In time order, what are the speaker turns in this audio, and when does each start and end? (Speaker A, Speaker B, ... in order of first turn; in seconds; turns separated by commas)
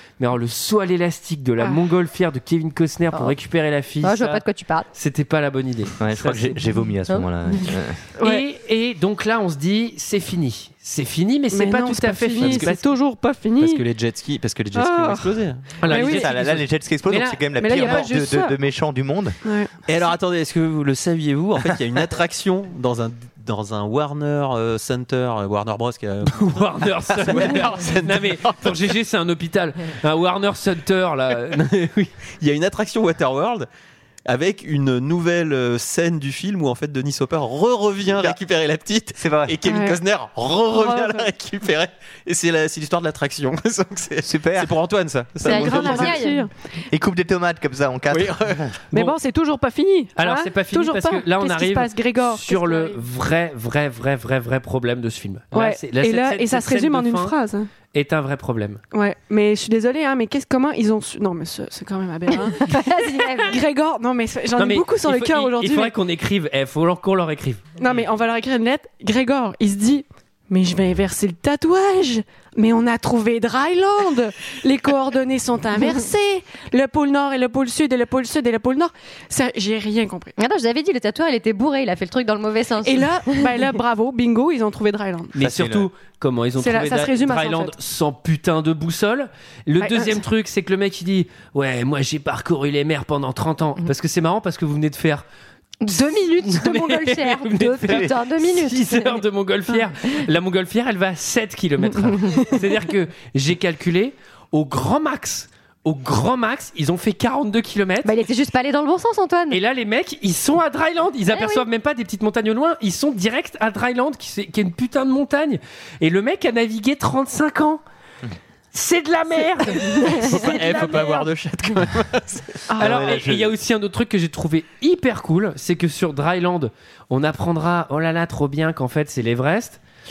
Speaker A: 0.2-6.6, Speaker B: 4.0-4.9, Speaker C: 6.0-8.0, Speaker D: 8.2-8.4, Speaker A: 8.2-12.9, Speaker D: 11.5-13.8, Speaker E: 12.4-12.7, Speaker E: 13.6-15.7, Speaker D: 14.7-16.3, Speaker A: 15.8-18.1, Speaker C: 15.9-19.4, Speaker D: 17.6-18.5, Speaker D: 19.4-19.7, Speaker E: 19.9-28.9, Speaker A: 26.2-32.1, Speaker E: 32.4-33.7, Speaker E: 34.2-46.1, Speaker C: 39.2-39.6, Speaker D: 39.7-40.0, Speaker D: 40.7-41.3, Speaker C: 44.2-44.7, Speaker B: 45.4-46.4, Speaker D: 45.4-46.5, Speaker C: 46.9-48.7, Speaker E: 48.1-48.7, Speaker D: 48.9-53.0, Speaker A: 50.2-57.3, Speaker D: 55.5-57.7, Speaker A: 57.9-58.8, Speaker D: 58.9-65.9, Speaker B: 62.5-63.6, Speaker A: 64.6-67.6, Speaker D: 67.8-80.3, Speaker B: 80.4-83.7, Speaker D: 82.8-85.3, Speaker A: 85.3-95.2, Speaker C: 85.4-85.9, Speaker D: 86.6-87.7, Speaker D: 89.8-90.2, Speaker B: 95.8-99.2, Speaker A: 96.5-108.1, Speaker B: 102.2-102.5, Speaker B: 108.0-109.6, Speaker A: 109.5-117.8, Speaker B: 111.3-111.6, Speaker A: 118.7-121.2, Speaker B: 119.9-120.4, Speaker E: 120.2-122.6, Speaker D: 122.7-123.0, Speaker C: 122.8-123.5, Speaker A: 122.8-129.8